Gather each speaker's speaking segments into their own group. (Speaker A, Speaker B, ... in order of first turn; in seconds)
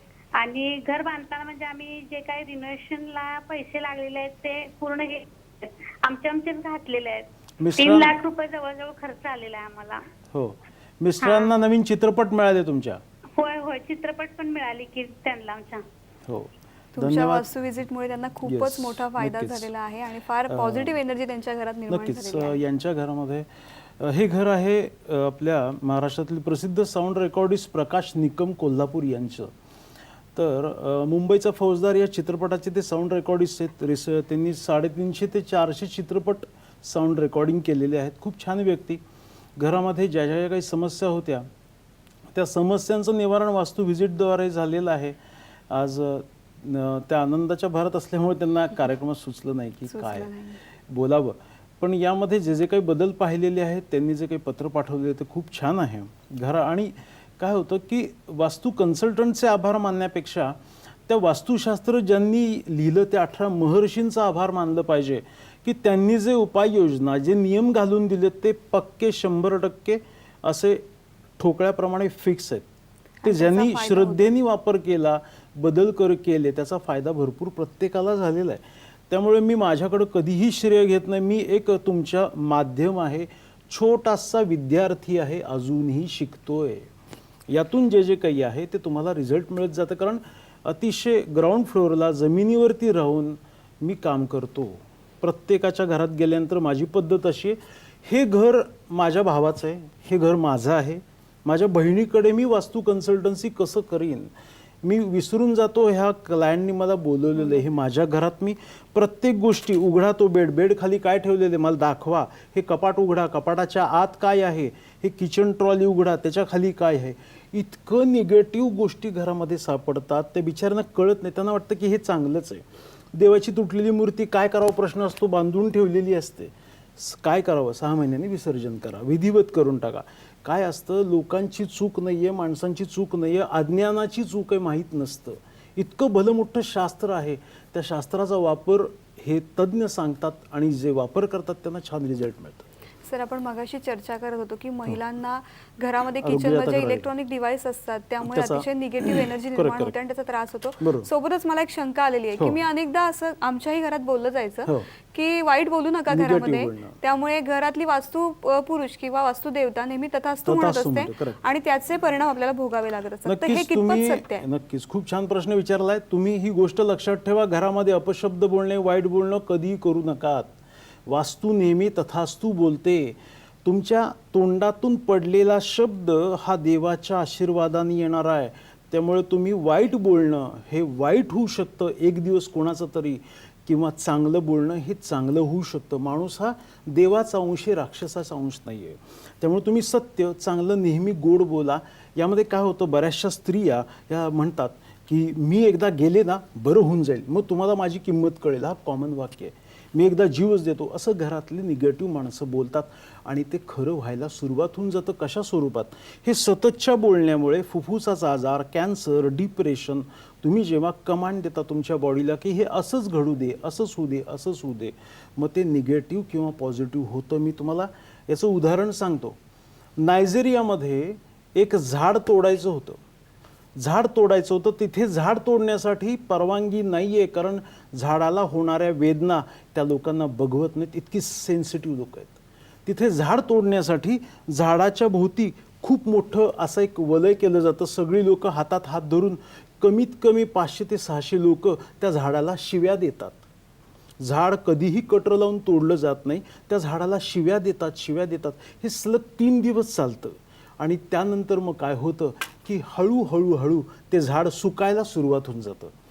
Speaker A: 0.3-7.2, 7.8-10.0, 11.2-11.5, 13.4-15.8
Speaker B: 7.6-8.1, 10.3-13.0, 16.3-17.5, 18.4-19.7, 20.5-20.9, 21.9-23.5, 24.0-29.5, 30.3-39.0, 39.6-41.5, 42.3-45.2, 45.7-70.8, 71.4-72.7, 73.2-86.9, 87.5-104.3, 104.8-142.7, 146.2-147.1, 148.2-149.9, 150.8-151.1, 156.1-157.0, 160.4-161.4, 163.2-170.5, 171.1-219.4, 220.0-223.0, 223.8-243.4, 244.2-255.9
Speaker C: 16.9-22.6, 49.9-50.6, 73.2-74.3, 143.1-164.4